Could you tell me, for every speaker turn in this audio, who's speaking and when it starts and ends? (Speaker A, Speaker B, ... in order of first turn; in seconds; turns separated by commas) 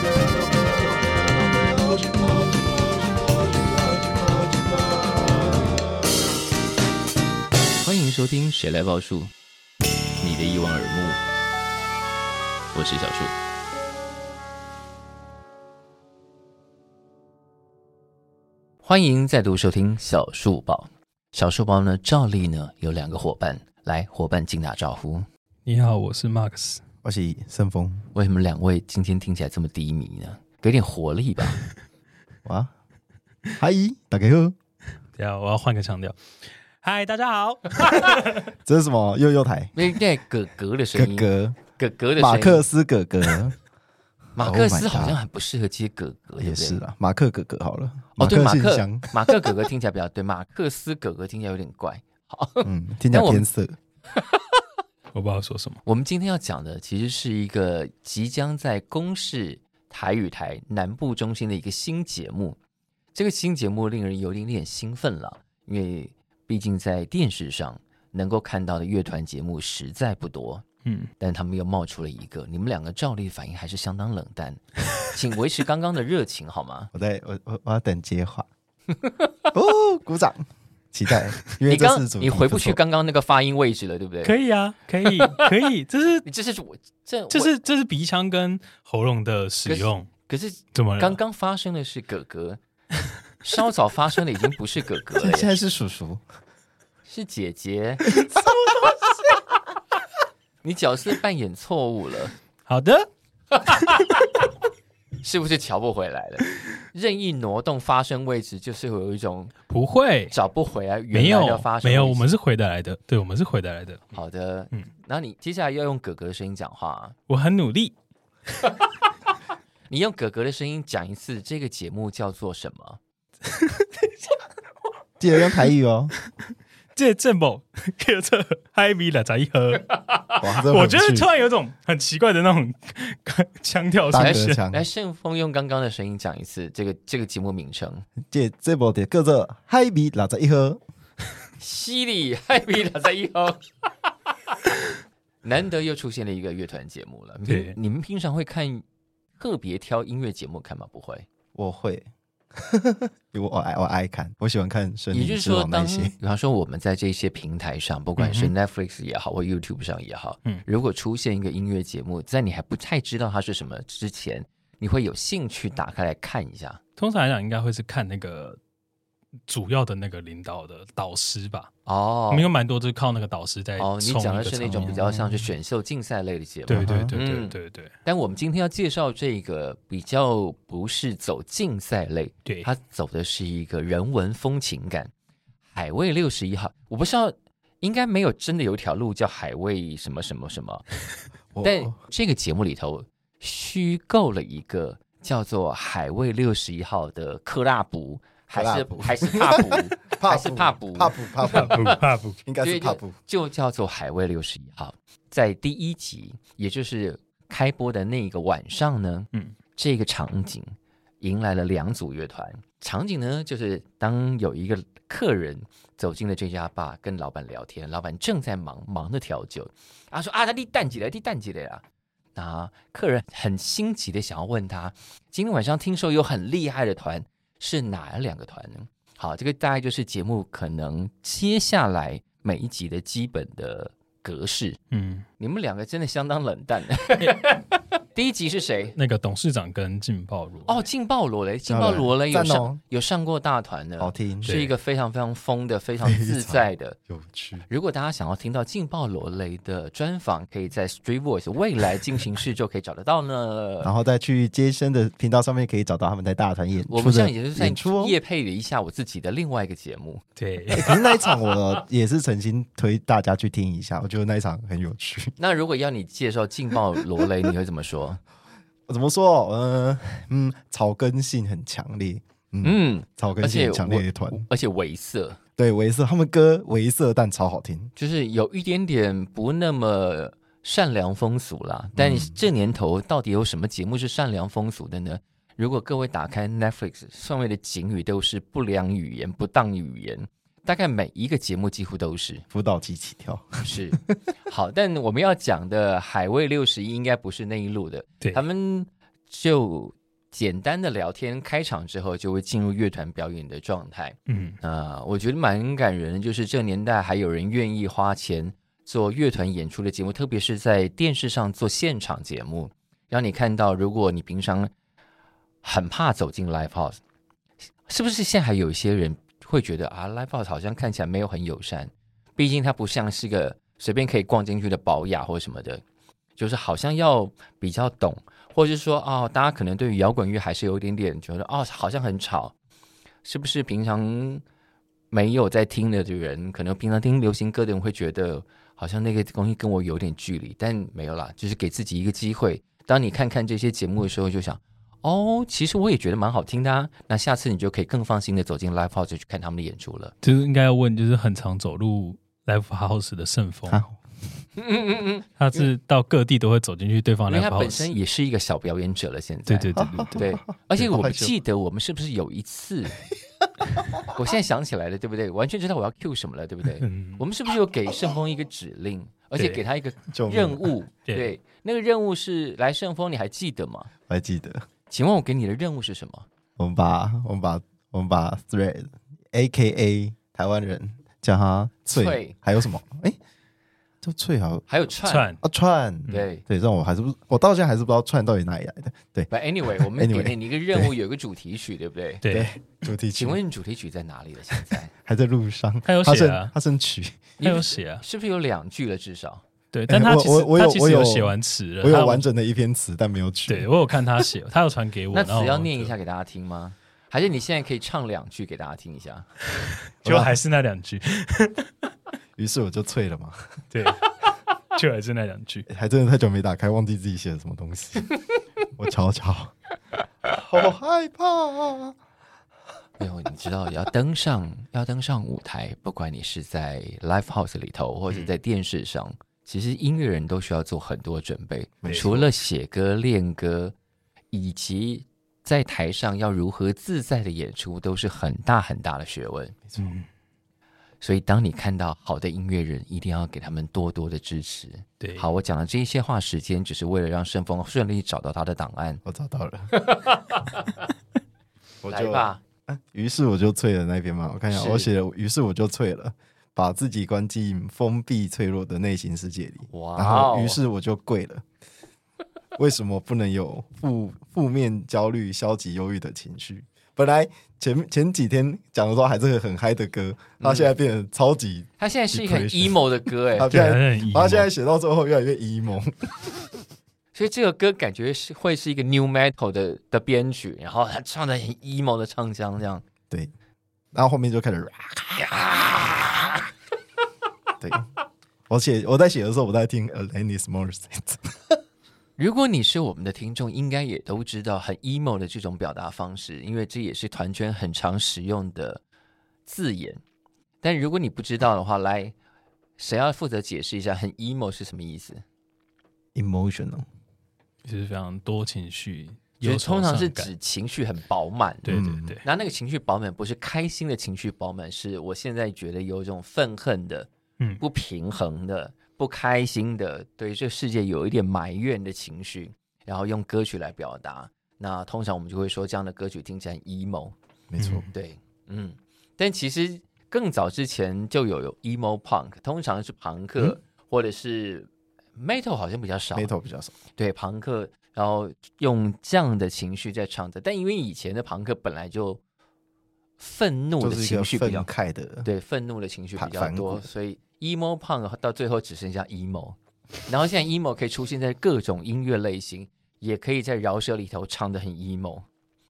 Speaker A: 1.7-5.3, Speaker B: 7.8-9.3, Speaker B: 10.2-11.2, Speaker B: 12.7-13.3, Speaker B: 18.8-25.2, Speaker C: 25.7-26.8, Speaker A: 27.0-28.1, Speaker B: 28.1-31.6, Speaker A: 32.5-32.7, Speaker A: 33.6-34.5, Speaker C: 35.2-36.2, Speaker C: 36.8-38.5, Speaker A: 38.6-39.7, Speaker B: 39.8-42.7, Speaker A: 41.0-41.6, Speaker A: 42.2-43.6, Speaker A: 44.4-45.2, Speaker B: 44.4-46.8, Speaker A: 46.4-49.5, Speaker B: 48.2-53.5, Speaker A: 52.6-53.8, Speaker B: 54.2-54.6, Speaker C: 55.1-55.8, Speaker B: 55.9-62.6, Speaker B: 63.1-70.7, Speaker C: 70.8-71.1, Speaker B: 71.2-76.9, Speaker A: 76.9-78.5, Speaker A: 79.5-82.8, Speaker B: 81.7-84.3, Speaker C: 84.2-86.3, Speaker B: 86.2-87.5, Speaker C: 87.3-90.1, Speaker B: 89.7-92.6, Speaker C: 90.7-91.2, Speaker B: 93.4-95.6, Speaker A: 95.2-96.2, Speaker B: 97.0-98.1, Speaker B: 100.6-102.3, Speaker C: 102.7-103.1, Speaker B: 103.5-104.5, Speaker C: 103.7-104.0, Speaker B: 105.2-109.5, Speaker C: 109.7-110.3, Speaker B: 110.3-112.3, Speaker C: 111.1-114.2, Speaker B: 114.1-117.2, Speaker C: 117.3-117.9, Speaker B: 119.9-123.0, Speaker C: 123.5-124.1, Speaker A: 125.2-126.1, Speaker C: 127.0-134.6, Speaker A: 130.4-131.3, Speaker A: 134.1-134.8, Speaker B: 134.2-138.1, Speaker A: 138.3-140.8, Speaker B: 141.6-143.7, Speaker B: 145.4-148.8, Speaker C: 147.5-147.8, Speaker B: 149.4-151.3, Speaker A: 151.6-156.2, Speaker B: 155.1-166.8, Speaker C: 158.2-158.5, Speaker C: 167.0-168.6, Speaker C: 169.5-171.7, Speaker B: 171.9-172.5, Speaker C: 172.3-175.0, Speaker B: 173.8-185.1, Speaker A: 174.8-175.5, Speaker C: 176.7-177.9, Speaker A: 176.7-177.2, Speaker B: 185.7-190.8, Speaker A: 191.5-191.9, Speaker B: 191.6-201.9, Speaker A: 198.5-201.9, Speaker C: 201.5-202.4, Speaker A: 202.4-203.1, Speaker B: 202.6-210.7, Speaker B: 211.2-221.8, Speaker B: 222.3-234.8, Speaker C: 234.9-235.3, Speaker B: 235.4-239.0, Speaker C: 238.9-240.8, Speaker B: 240.7-247.0, Speaker A: 241.7-242.8, Speaker A: 244.0-244.5, Speaker C: 244.4-244.7, Speaker A: 246.0-247.7, Speaker B: 247.7-253.9, Speaker A: 253.8-258.2, Speaker B: 256.9-260.2, Speaker C: 260.4-261.1, Speaker A: 260.7-265.3, Speaker B: 265.4-268.2, Speaker A: 268.9-274.4, Speaker B: 272.6-275.4, Speaker A: 275.6-277.9, Speaker B: 278.0-292.4, Speaker A: 282.0-282.4, Speaker A: 292.5-294.0, Speaker B: 293.6-314.7, Speaker C: 304.3-304.6, Speaker B: 315.6-317.0, Speaker B: 317.9-325.8, Speaker B: 326.4-332.5, Speaker B: 333.2-334.4, Speaker B: 335.1-350.1, Speaker C: 350.2-353.8, Speaker A: 353.7-354.0, Speaker B: 354.6-355.6, Speaker C: 355.4-357.9, Speaker B: 357.3-363.0, Speaker C: 359.5-360.3, Speaker A: 359.8-361.3, Speaker B: 364.1-373.9, Speaker C: 366.8-367.2, Speaker C: 369.4-369.6, Speaker A: 370.1-370.7, Speaker A: 374.1-374.6, Speaker B: 374.9-376.3, Speaker A: 376.6-383.2, Speaker B: 381.9-382.4, Speaker A: 384.0-384.7, Speaker B: 384.7-385.3, Speaker C: 385.1-385.4, Speaker A: 385.4-390.9, Speaker B: 386.1-386.4, Speaker B: 389.3-392.2, Speaker C: 392.2-392.5, Speaker A: 392.3-393.4, Speaker B: 393.1-394.9, Speaker A: 395.0-397.3, Speaker C: 395.9-396.5, Speaker B: 397.4-399.4, Speaker C: 397.4-398.0, Speaker C: 399.7-402.2, Speaker A: 399.9-403.7, Speaker C: 403.5-405.9, Speaker B: 405.1-409.3, Speaker C: 409.6-411.7, Speaker A: 410.0-410.4, Speaker A: 412.4-413.6, Speaker C: 413.7-415.7, Speaker A: 415.7-418.1, Speaker A: 418.8-419.5, Speaker A: 420.3-422.0, Speaker B: 423.0-433.8, Speaker A: 431.8-432.3, Speaker B: 434.3-439.6, Speaker A: 439.7-439.9, Speaker C: 439.8-440.1, Speaker B: 441.0-449.0, Speaker A: 449.0-449.7, Speaker B: 449.7-450.8, Speaker A: 451.8-461.4, Speaker B: 451.9-452.4, Speaker B: 454.5-454.9, Speaker B: 459.7-460.6, Speaker A: 462.6-472.8, Speaker B: 470.4-470.7, Speaker B: 471.8-473.6, Speaker A: 473.3-476.1, Speaker C: 473.5-474.5, Speaker B: 477.1-482.8, Speaker A: 483.9-485.3, Speaker B: 485.2-486.5, Speaker A: 487.6-487.9, Speaker A: 488.5-491.6, Speaker B: 492.2-498.8, Speaker B: 499.5-500.0, Speaker B: 500.6-502.1, Speaker B: 502.8-505.2, Speaker A: 506.1-506.9, Speaker C: 507.6-510.3, Speaker B: 509.4-527.1, Speaker C: 511.6-512.2, Speaker A: 511.7-512.2, Speaker A: 527.5-527.9, Speaker C: 527.6-527.9, Speaker B: 527.9-536.3, Speaker A: 536.1-536.8, Speaker B: 536.9-542.2, Speaker B: 543.2-544.7, Speaker A: 543.8-545.3, Speaker B: 545.2-555.2, Speaker A: 546.2-546.9